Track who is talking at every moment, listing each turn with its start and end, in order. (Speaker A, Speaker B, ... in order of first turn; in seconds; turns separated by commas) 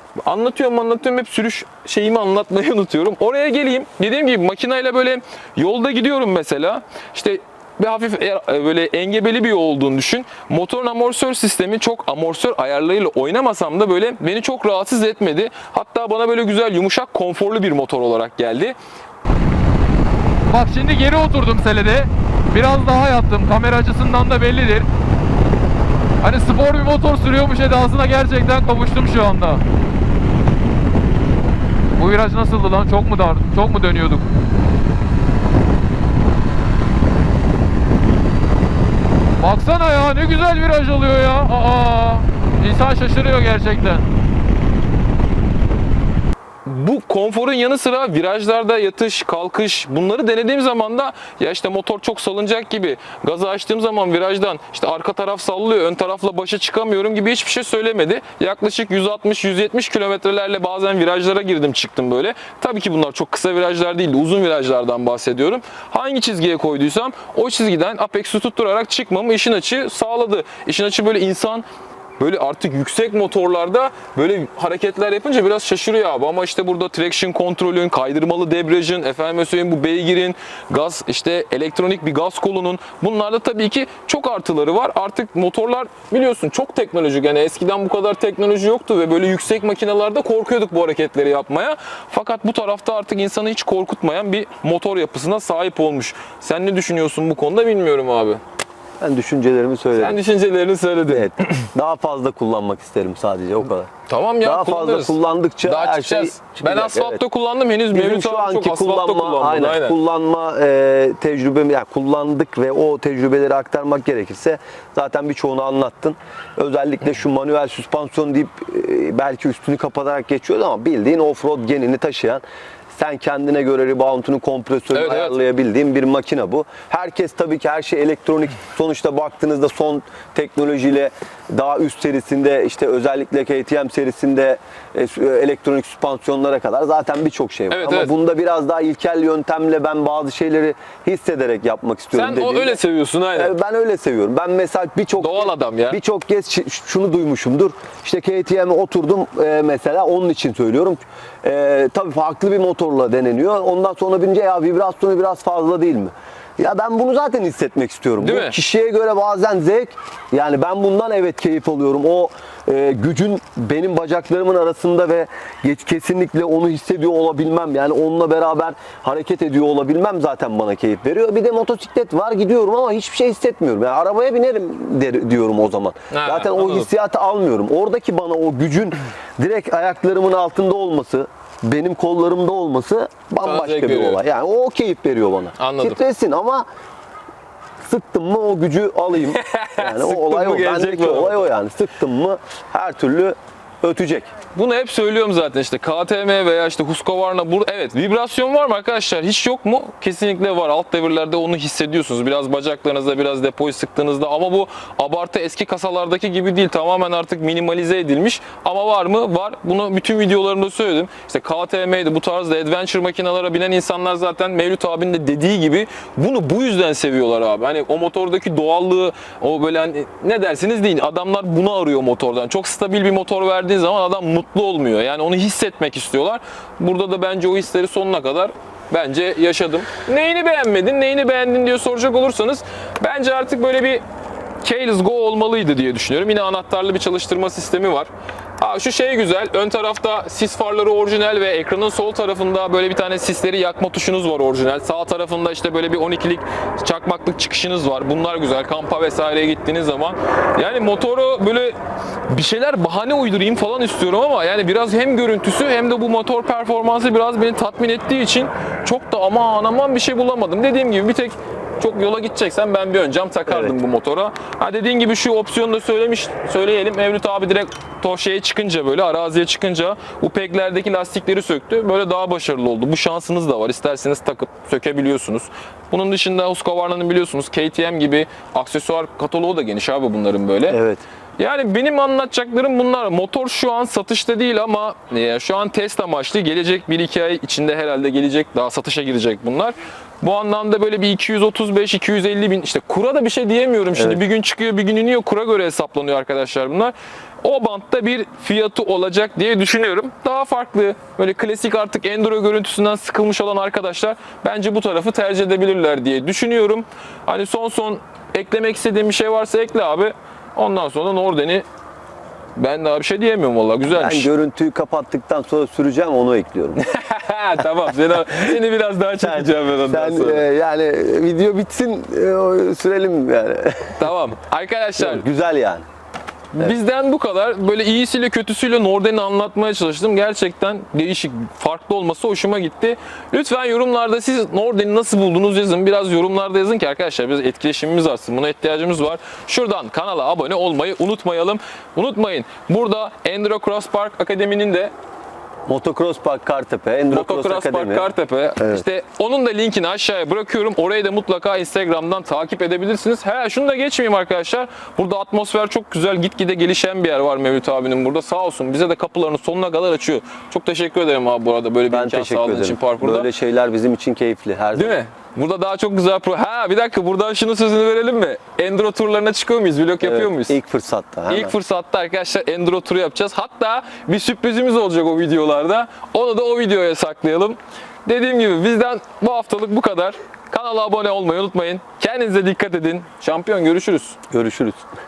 Speaker A: 0.3-18.8, Speaker B: 20.5-24.9, Speaker B: 26.2-29.6, Speaker B: 32.0-34.2, Speaker B: 39.4-44.0, Speaker A: 46.6-71.6, Speaker A: 72.2-98.4, Speaker C: 99.0-100.2, Speaker A: 99.9-101.7, Speaker C: 101.1-103.9, Speaker A: 104.1-110.0, Speaker C: 104.4-107.2, Speaker C: 107.9-122.4, Speaker C: 122.9-142.8, Speaker A: 124.9-125.3, Speaker A: 137.7-138.1, Speaker A: 142.1-143.5, Speaker C: 143.3-186.7, Speaker A: 145.2-146.0, Speaker A: 158.2-158.6, Speaker A: 176.1-176.9, Speaker A: 183.4-184.2, Speaker A: 185.6-186.0, Speaker C: 187.8-194.3, Speaker A: 189.3-191.5, Speaker A: 194.5-234.0, Speaker A: 234.6-251.8, Speaker A: 252.3-280.8, Speaker C: 280.7-281.0, Speaker A: 281.4-311.6, Speaker C: 293.9-294.2, Speaker A: 312.6-314.3, Speaker C: 313.9-316.8, Speaker A: 316.8-320.5, Speaker C: 319.2-324.0, Speaker A: 324.0-325.2, Speaker C: 325.0-325.9, Speaker A: 326.5-344.9, Speaker C: 345.7-348.1, Speaker A: 347.1-363.3, Speaker C: 361.9-365.0, Speaker A: 364.7-370.6, Speaker C: 370.0-371.5, Speaker A: 371.3-384.2, Speaker C: 384.3-384.9